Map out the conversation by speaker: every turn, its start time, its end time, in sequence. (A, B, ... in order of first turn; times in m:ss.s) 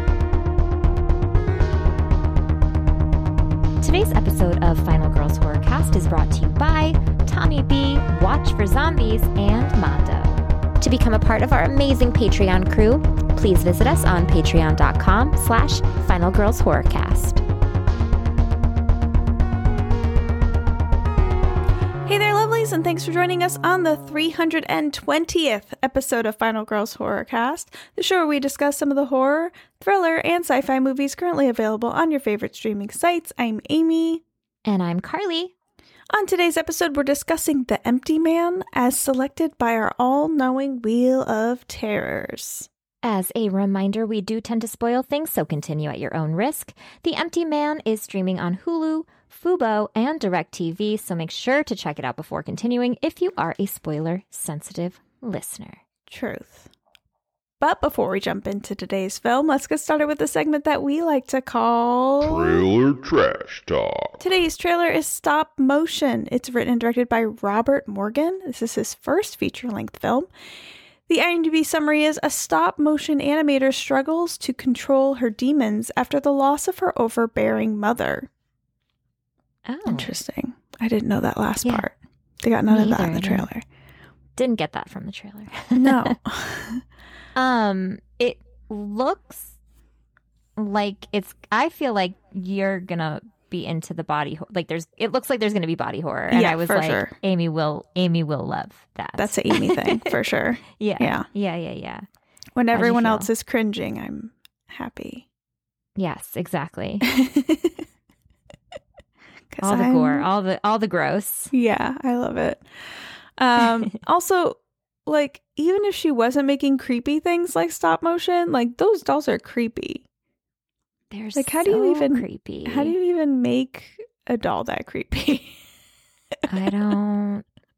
0:03.8-0:17.4 A
0:22.1-0:34.2 B
0:34.6-0:35.5 A
0:36.1-0:42.7 B
0:43.0-0:55.8 A
0:56.1-0:56.7 B
0:57.6-1:02.7 B
1:02.2-1:04.2 C
1:04.2-1:10.3 B
1:11.1-1:18.3 B
1:19.7-1:20.2 A
1:19.9-1:23.6 B
1:21.6-1:21.9 A
1:22.7-1:23.5 A
1:24.4-1:26.1 A
1:25.8-1:26.8 B
1:27.4-1:29.6 A
1:30.6-1:40.1 A
1:36.3-1:37.2 B
1:39.2-1:41.3 B
1:40.8-1:42.0 A
1:42.6-1:45.3 B
1:42.7-1:43.3 A
1:46.0-1:47.1 A
1:47.0-1:47.8 B
1:49.5-1:50.3 B
1:49.6-1:51.5 A
1:51.5-1:52.6 B
1:53.4-2:00.0 B
2:01.1-2:03.0 A
2:01.4-2:05.6 B
2:06.5-2:07.5 A